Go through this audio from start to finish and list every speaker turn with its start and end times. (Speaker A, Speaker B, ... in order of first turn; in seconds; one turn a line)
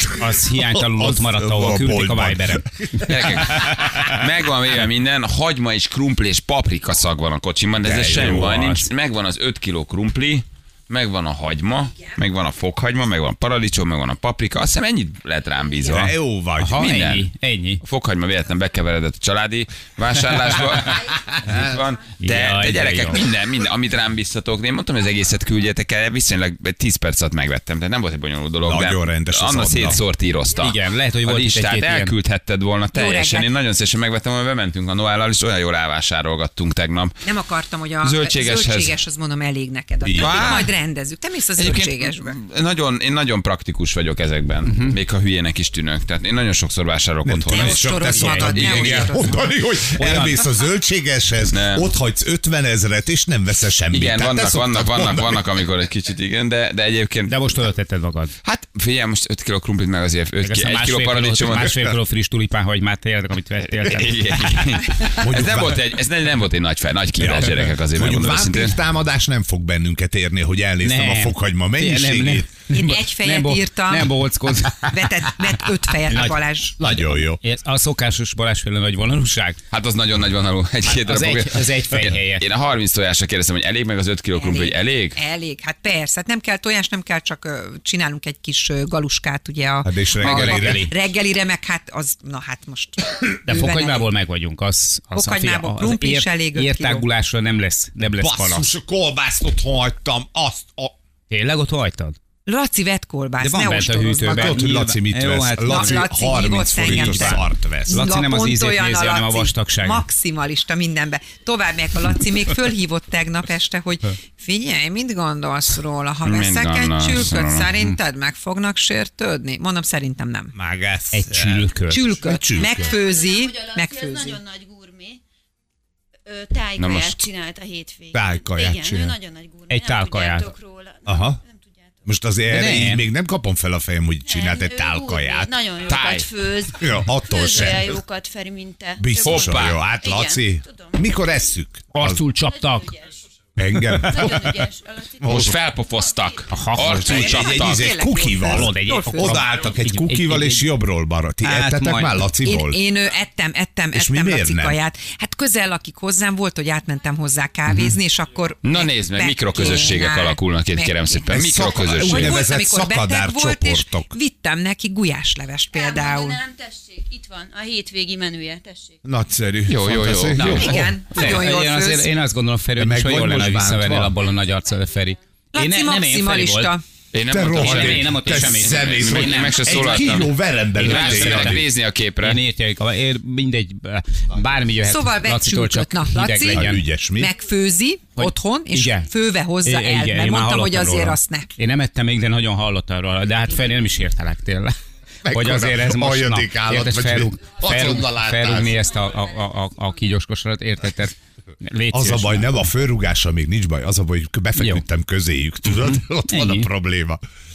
Speaker A: 0.2-3.1
Speaker B: 0.6-4.2
Speaker C: 3.1-16.2
Speaker B: 7.8-8.8
Speaker B: 15.9-16.9
Speaker A: 16.6-17.8
Speaker C: 16.8-17.3
Speaker C: 17.8-37.1
Speaker B: 21.4-21.7
Speaker A: 22.2-23.2
Speaker B: 28.6-30.0
Speaker A: 30.6-32.1
Speaker D: 32.9-33.5
Speaker D: 37.2-42.4
Speaker C: 38.0-38.9
Speaker B: 40.0-40.7
Speaker C: 40.2-40.8
Speaker C: 41.5-48.0
Speaker A: 44.6-45.0
Speaker B: 47.2-55.4
Speaker D: 47.5-49.5
Speaker A: 48.1-48.8
Speaker C: 48.6-49.1
Speaker A: 50.0-50.4
Speaker C: 51.5-51.9
Speaker C: 53.9-57.3
Speaker A: 57.3-58.3
Speaker C: 58.4-61.9
Speaker A: 60.4-64.8
Speaker C: 63.8-68.8
Speaker B: 65.2-65.8
Speaker B: 67.2-72.5
Speaker A: 70.8-75.0
Speaker D: 72.7-77.0
Speaker A: 76.1-76.4
Speaker B: 76.8-77.4
Speaker A: 77.4-79.6
Speaker C: 79.7-85.2
Speaker A: 80.9-82.5
Speaker D: 84.3-94.1
Speaker B: 89.8-90.9
Speaker A: 90.2-90.9
Speaker A: 93.5-98.7
Speaker D: 95.1-97.1
Speaker B: 98.2-101.0
Speaker A: 101.3-102.2
Speaker D: 102.5-104.6
Speaker A: 103.4-106.1
Speaker B: 104.3-108.1
Speaker D: 105.6-120.5
Speaker A: 106.8-110.0
Speaker C: 116.2-117.7
Speaker B: 120.5-122.9
Speaker A: 121.1-122.0
Speaker D: 121.9-124.4
Speaker E: 122.6-125.2
Speaker E: 126.3-132.1
Speaker C: 126.8-127.2
Speaker B: 128.1-129.2
Speaker A: 129.7-130.5
Speaker B: 131.1-131.4
Speaker B: 132.1-135.5
Speaker A: 132.5-133.0
Speaker E: 134.2-141.1
Speaker C: 135.9-136.3
Speaker B: 136.8-138.0
Speaker B: 139.0-142.2
Speaker C: 139.2-139.8
Speaker A: 141.9-142.9
Speaker E: 142.5-143.1
Speaker B: 143.6-144.6
Speaker E: 144.0-146.4
Speaker B: 145.2-145.6
Speaker C: 145.2-147.9
Speaker A: 146.5-147.1
Speaker B: 146.8-152.8
Speaker D: 146.9-149.4
Speaker A: 148.5-150.7
Speaker A: 151.4-152.2
Speaker D: 152.4-166.4
Speaker B: 153.9-154.8
Speaker A: 157.7-158.0
Speaker C: 158.6-162.4
Speaker B: 161.3-164.1
Speaker E: 165.7-169.0
Speaker B: 169.1-170.9
Speaker C: 169.7-170.9
Speaker A: 170.4-176.8
Speaker D: 170.4-172.1
Speaker B: 172.8-174.1
Speaker D: 175.5-176.8
Speaker C: 177.1-182.4
Speaker B: 177.3-181.7
Speaker A: 177.5-179.9
Speaker A: 180.8-186.8
Speaker D: 184.8-191.5
Speaker B: 186.5-187.3
Speaker A: 188.2-189.1
Speaker A: 189.6-194.8
Speaker B: 195.2-198.8
Speaker A: 195.3-202.7
Speaker B: 201.9-207.2
Speaker A: 204.6-204.8
Speaker A: 206.3-206.7